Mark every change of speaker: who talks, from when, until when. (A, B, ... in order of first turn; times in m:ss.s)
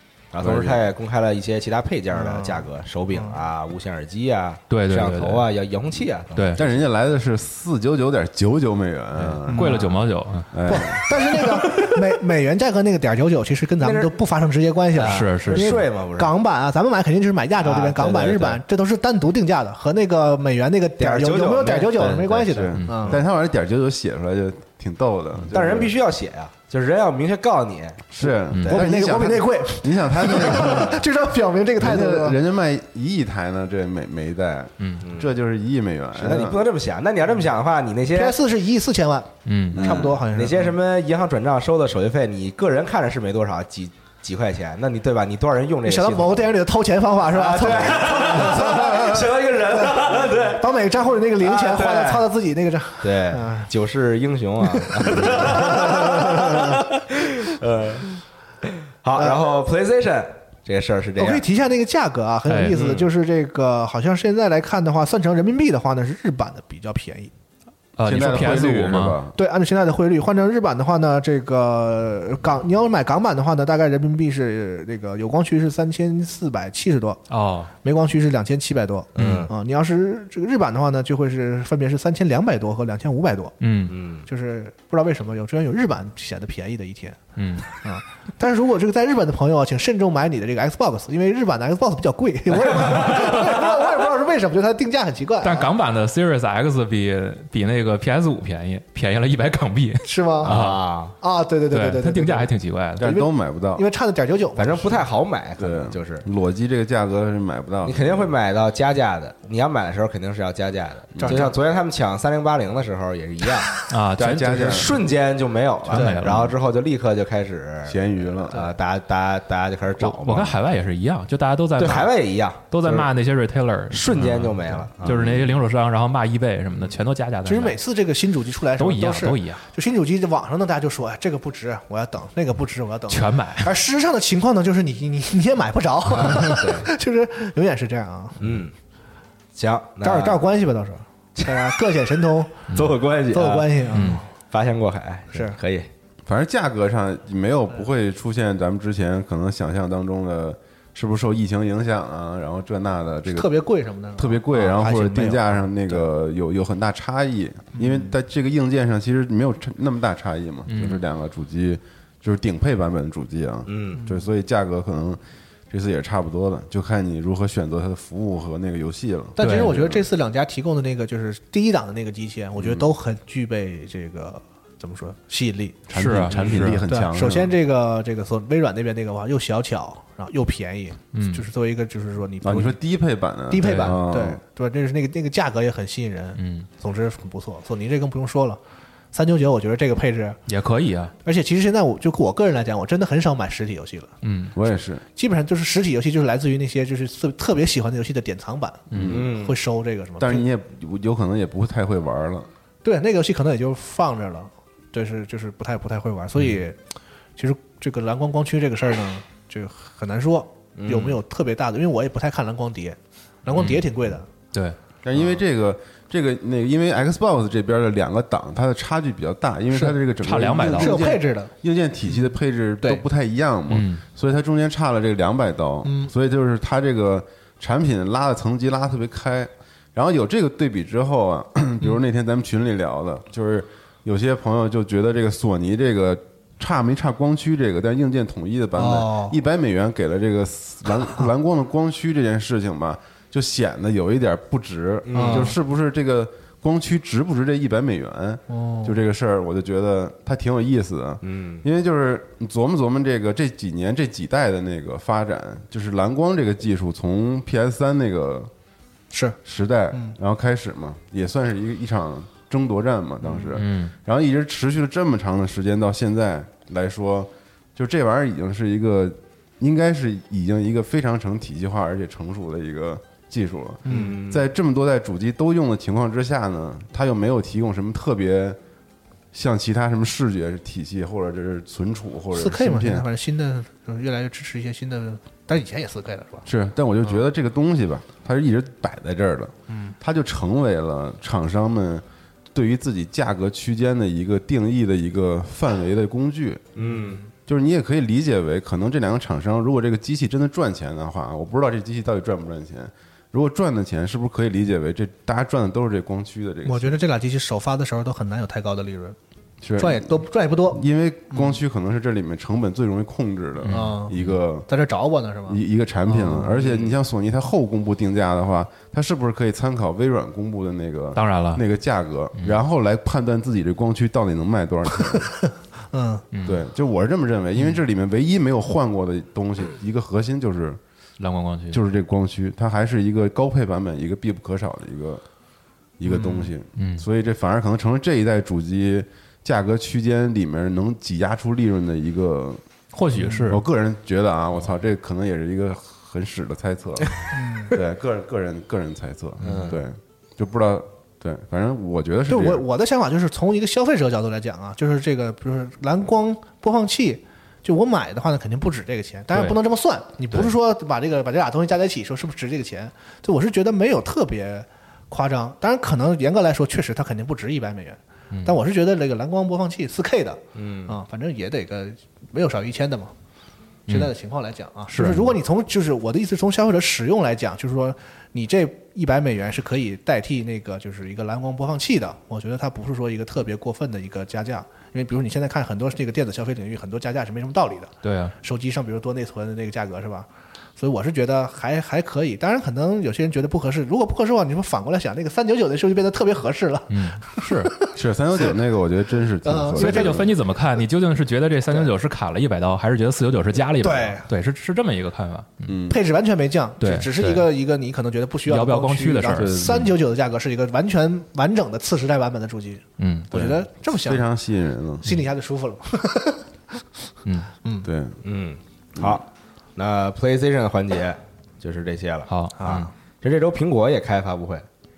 0:00.3-0:06.8 A
0:00.4-0:00.9 B
0:02.1-0:03.4 C
0:04.7-0:05.5 D
0:06.3-0:06.6 D
0:06.6-0:09.8 B
0:09.4-0:10.5 D
0:09.5-0:10.0 C
0:10.5-0:11.2 B
0:10.6-0:23.2 C
0:13.8-0:14.1 A
0:14.9-0:16.3 A
0:15.0-0:15.8 D
0:17.6-0:18.6 A
0:21.0-0:23.2 A
0:22.5-0:26.0 B
0:25.5-0:28.8 A
0:28.1-0:31.0 B
0:28.7-0:32.4 C
0:31.8-0:36.7 B
0:35.0-0:35.3 A
0:36.1-0:38.4 A
0:38.1-0:40.7 C
0:39.4-0:40.1 D
0:39.7-0:46.4 A
0:45.8-0:49.1 C
0:47.2-0:50.7 A
0:48.6-0:49.3 B
0:49.8-0:53.7 C
0:51.4-0:52.3 A
0:53.0-0:58.1 A
0:54.6-0:56.8 C
0:59.0-1:01.4 A
0:59.1-0:59.4 C
1:01.2-1:07.3 C
1:02.5-1:02.8 D
1:02.7-1:03.1 A
1:08.0-1:09.2 D
1:08.0-1:09.4 B
1:09.4-1:17.2 C
1:17.3-1:17.7 D
1:17.8-1:23.5 C
1:19.2-1:19.5 A
1:19.2-1:19.5 D
1:23.6-1:24.0 D
1:23.9-1:24.2 A
1:24.2-1:27.2 C
1:27.4-1:27.7 D
1:27.7-1:35.7 C
1:32.7-1:33.5 D
1:35.4-1:40.8 D
1:40.0-1:40.6 C
1:40.4-1:41.1 A
1:41.2-1:45.0 C
1:41.7-1:43.1 D
1:43.0-1:43.8 B
1:44.6-1:46.2 A
1:45.6-1:48.3 B
1:47.8-1:53.7 A
1:51.1-1:51.5 B
1:51.2-1:51.5 C
1:53.8-1:55.0 D
1:54.2-1:55.1 B
1:54.6-2:00.6 A
1:55.9-1:56.5 D
1:55.9-1:56.3 C
1:57.8-1:58.6 B
2:00.0-2:02.1 D
2:01.8-2:03.0 A
2:02.7-2:07.8 D
2:03.9-2:05.2 A
2:05.0-2:05.6 B
2:07.4-2:18.6 C
2:08.8-2:09.6 D
2:13.1-2:13.7 D
2:16.1-2:16.9 A
2:18.4-2:18.7 A
2:19.5-2:20.4 A
2:20.0-2:22.6 C
2:22.7-2:23.0 D
2:22.7-2:25.9 A
2:23.3-2:24.2 C
2:23.9-2:24.2 D
2:25.3-2:25.6 C
2:26.2-2:33.5 B
2:33.3-2:36.0 C
2:34.2-2:45.2 B
2:37.7-2:38.2 C
2:40.7-2:41.0 D
2:43.7-2:44.0 A
2:45.7-2:50.1 B
2:49.4-2:55.9 C
2:49.4-2:49.7 D
2:52.6-2:52.8 B
2:55.9-2:57.5 B
2:55.9-2:56.8 D
2:56.9-3:02.8 C
3:01.1-3:01.5 D
3:02.4-3:04.4 B
3:03.5-3:08.6 C
3:03.6-3:03.9 D
3:06.4-3:06.7 D
3:09.1-3:10.4 C
3:10.5-3:11.1 D
3:11.2-3:14.1 C
3:14.2-3:14.5 D
3:14.5-3:15.0 B
3:15.1-3:20.4 C
3:18.9-3:19.2 D
3:18.9-3:19.3 B
3:19.0-3:19.6 A
3:20.2-3:22.5 B
3:22.8-3:26.8 C
3:27.4-3:34.3 C
3:30.8-3:31.2 A
3:33.5-3:33.8 D
3:35.0-4:18.5 B
3:40.2-3:41.0 D
3:40.8-3:41.5 C
3:43.7-3:44.0 D
3:45.8-3:46.1 C
3:58.8-3:59.3 C
4:05.0-4:05.5 A
4:05.1-4:05.5 C
4:08.5-4:09.0 C
4:11.2-4:11.6 A
4:19.1-4:19.4 C
4:19.4-4:38.6 B
4:23.5-4:23.9 D
4:33.8-4:34.2 C
4:33.8-4:34.5 A
4:39.3-4:43.1 B
4:42.3-4:46.5 C
4:46.4-4:56.7 B
4:49.7-4:49.9 C
4:56.8-4:57.2 A
4:56.8-4:57.3 C
4:57.4-5:06.9 B
5:06.6-5:09.2 C
5:09.6-5:14.7 B
5:09.8-5:10.8 C
5:13.6-5:14.4 D
5:13.7-5:14.1 C
5:14.7-5:16.7 C
5:15.5-5:25.3 B
5:16.6-5:16.9 A
5:21.1-5:21.6 D
5:22.3-5:22.6 D
5:25.9-5:26.2 C
5:26.3-5:26.6 D
5:26.4-5:30.8 B
5:31.2-5:31.8 D
5:31.7-5:35.2 B
5:36.0-5:42.6 B
5:36.0-5:36.5 C
5:36.8-5:37.0 D
5:42.9-5:43.6 D
5:43.2-5:43.5 C
5:43.5-5:47.2 B
5:47.3-5:47.8 C
5:47.7-5:52.6 B
5:49.4-5:49.7 D
5:49.4-5:49.8 A
5:52.3-6:13.1 C
6:10.5-6:11.0 A
6:13.9-6:14.1 D
6:13.9-6:37.9 C
6:14.9-6:15.3 D
6:28.0-6:28.3 D
6:36.9-6:37.7 D
6:37.9-6:40.3 B
6:39.4-6:40.2 C
6:39.8-6:45.8 D
6:43.8-6:44.3 C
6:45.7-6:46.0 B
6:45.9-6:54.2 C
6:46.8-6:47.5 D
6:48.5-6:49.6 D
6:49.3-6:49.9 B
6:53.0-6:53.3 D
6:53.3-6:55.2 B
6:55.0-6:56.4 C
6:57.8-6:58.2 B
6:58.2-6:59.2 A
6:59.0-6:59.2 B
6:59.8-7:04.6 A
7:02.3-7:02.9 D
7:02.6-7:02.9 C